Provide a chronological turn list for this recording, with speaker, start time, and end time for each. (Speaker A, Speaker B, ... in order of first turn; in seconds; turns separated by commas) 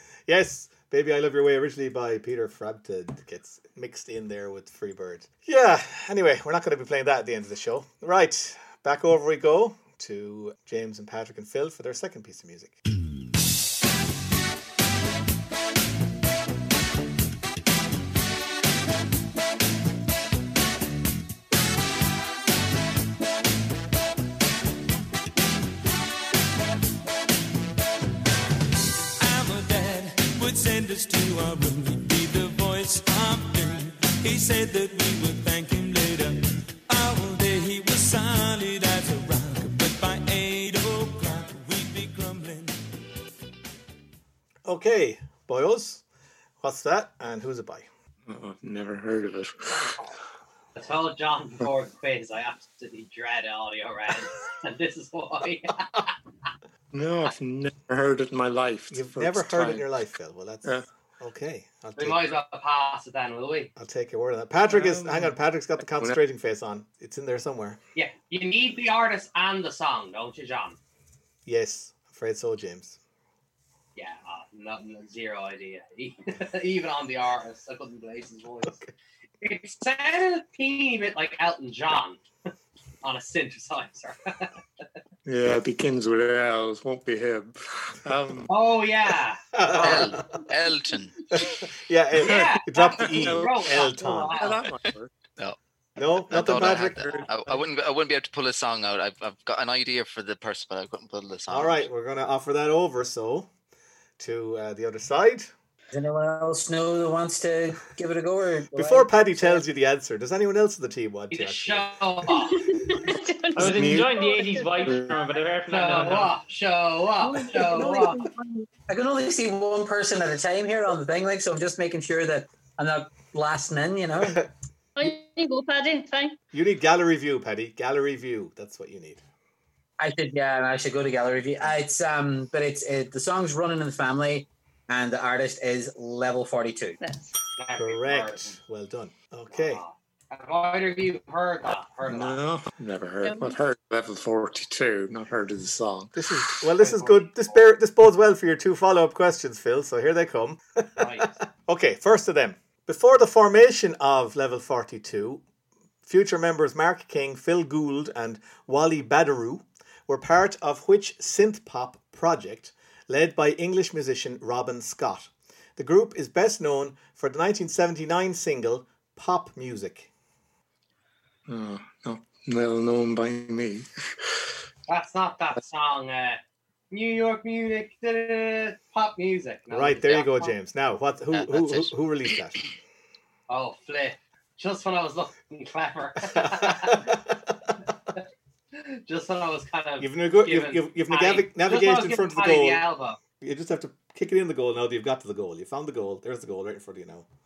Speaker A: 0.3-12.8, Speaker B: 29.2-42.8, Speaker A: 44.6-46.0, Speaker A: 46.6-47.9, Speaker C: 48.3-50.1, Speaker D: 50.8-56.1, Speaker C: 56.9-59.9, Speaker A: 58.9-62.3, Speaker D: 62.0-63.7, Speaker A: 63.8-67.8, Speaker C: 64.7-66.2, Speaker D: 68.0-70.8, Speaker A: 71.5-73.0, Speaker D: 74.0-78.8, Speaker D: 79.4-82.2, Speaker D: 83.0-84.5, Speaker C: 85.3-88.5, Speaker D: 88.5-90.2, Speaker A: 89.5-90.4, Speaker E: 89.8-91.2, Speaker A: 91.3-94.4, Speaker D: 92.2-94.7, Speaker C: 92.2-95.1, Speaker A: 96.0-97.3, Speaker E: 96.3-101.9, Speaker C: 96.4-97.7, Speaker A: 101.5-103.5, Speaker A: 104.2-105.5, Speaker F: 105.9-109.6, Speaker A: 108.8-112.3, Speaker D: 111.3-112.6, Speaker G: 112.3-115.2, Speaker C: 113.6-114.2, Speaker H: 113.6-116.4, Speaker C: 114.8-115.1, Speaker D: 115.7-118.2, Speaker G: 117.4-118.3, Speaker F: 117.5-124.4, Speaker G: 125.0-126.4, Speaker A: 126.5-129.2, Speaker F: 130.0-137.0, Speaker G: 137.0-137.4, Speaker D: 137.6-138.6, Speaker A: 137.8-139.8, Speaker D: 139.5-142.4, Speaker C: 142.1-146.6, Speaker G: 143.2-143.6, Speaker A: 146.1-155.4, Speaker D: 146.8-147.6, Speaker D: 151.0-151.4, Speaker A: 156.1-170.1, Speaker C: 171.5-174.3, Speaker D: 174.9-176.4, Speaker D: 176.9-180.5, Speaker A: 179.7-182.6, Speaker E: 181.3-182.4, Speaker D: 183.5-187.1, Speaker A: 186.3-187.8, Speaker D: 188.7-193.2, Speaker A: 190.0-192.9, Speaker A: 193.4-197.3